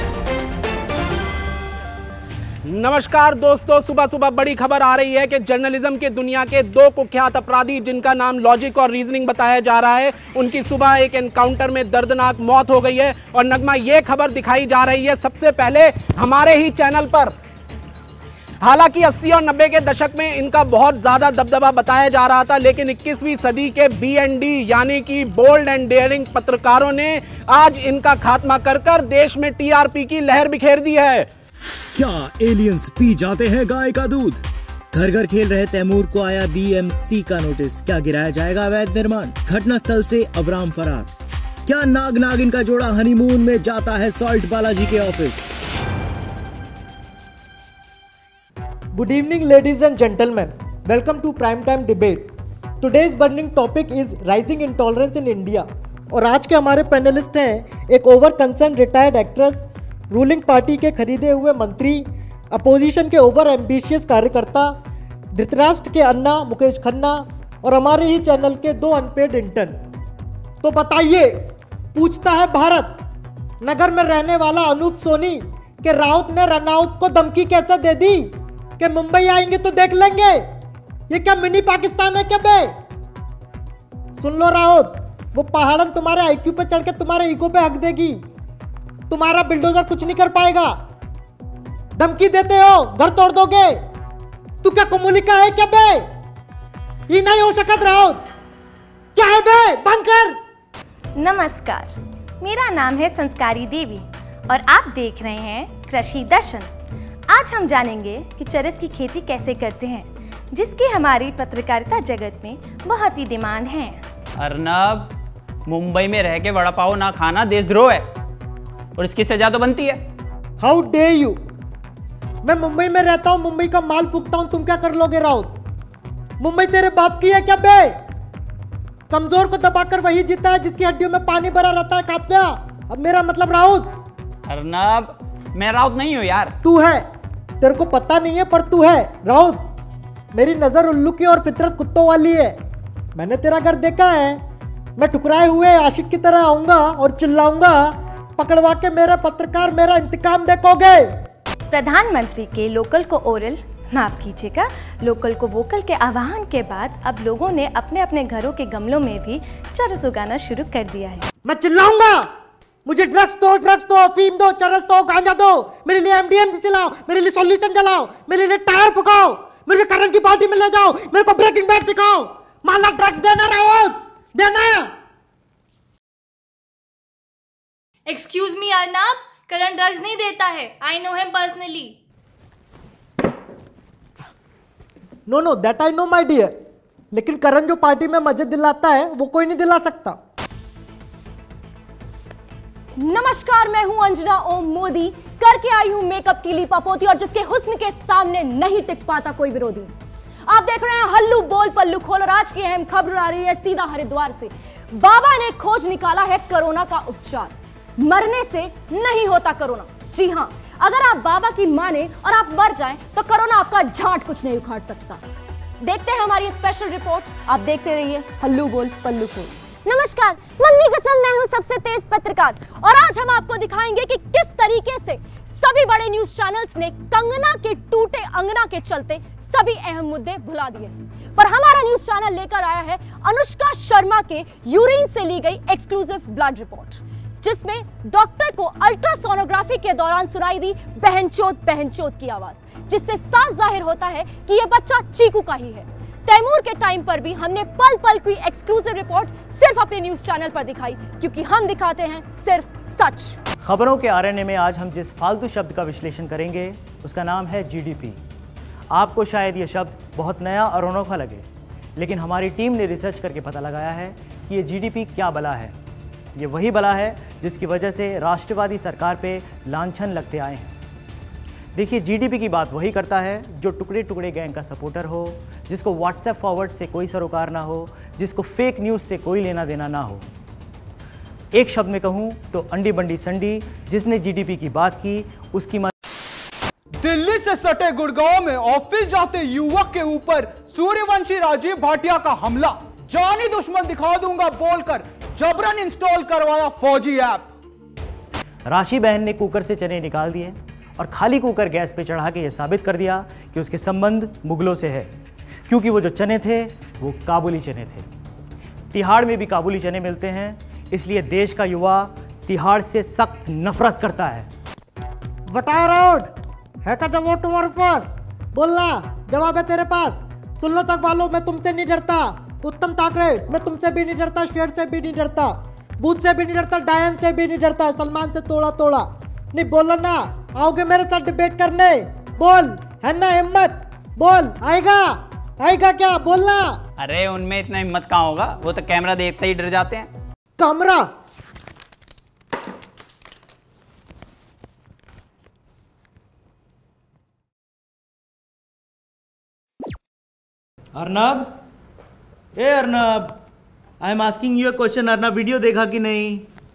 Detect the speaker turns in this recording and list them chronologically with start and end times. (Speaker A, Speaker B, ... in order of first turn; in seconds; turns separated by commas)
Speaker A: 2.7-17.3, Speaker A: 18.6-31.3, Speaker B: 31.9-34.3, Speaker C: 33.4-34.2, Speaker B: 35.0-41.0, Speaker C: 35.0-41.0, Speaker B: 41.7-43.1, Speaker C: 41.7-45.4, Speaker B: 45.0-45.3, Speaker D: 48.9-52.3, Speaker D: 52.8-64.7, Speaker D: 65.3-69.8, Speaker D: 70.6-71.3, Speaker D: 71.9-73.0, Speaker D: 73.6-80.4, Speaker D: 81.1-82.7, Speaker D: 84.2-88.2, Speaker D: 89.1-90.8, Speaker D: 92.0-93.8, Speaker D: 94.6-96.0, Speaker D: 97.1-98.2, Speaker D: 99.2-100.3, Speaker E: 101.2-106.7, Speaker E: 107.3-114.0, Speaker F: 114.4-115.1, Speaker F: 115.7-118.1, Speaker F: 119.0-120.0, Speaker D: 120.6-121.4, Speaker D: 122.4-125.5, Speaker D: 126.4-127.9, Speaker D: 129.1-133.9, Speaker F: 134.5-136.5, Speaker D: 136.6-137.0, Speaker D: 137.6-139.6, Speaker D: 140.3-142.6, Speaker D: 143.2-144.4, Speaker D: 145.0-151.1, Speaker E: 151.7-161.2, Speaker D: 161.4-162.3, Speaker D: 162.8-174.9, Speaker G: 178.1-181.9, Speaker D: 185.3-186.5, Speaker D: 187.1-190.2, Speaker H: 192.9-199.9, Speaker H: 200.5-215.2, Speaker H: 215.8-253.4, Speaker B: 253.6-258.2, Speaker B: 258.9-265.7, Speaker B: 266.4-270.7, Speaker B: 271.7-280.3, Speaker B: 281.5-285.9, Speaker I: 287.0-297.5, Speaker B: 298.7-305.1, Speaker B: 305.7-308.1, Speaker B: 308.9-314.5, Speaker D: 315.5-316.3, Speaker D: 316.8-336.8, Speaker F: 337.0-340.1, Speaker D: 340.6-341.1, Speaker C: 350.9-351.4, Speaker C: 352.6-353.3, Speaker C: 354.0-356.4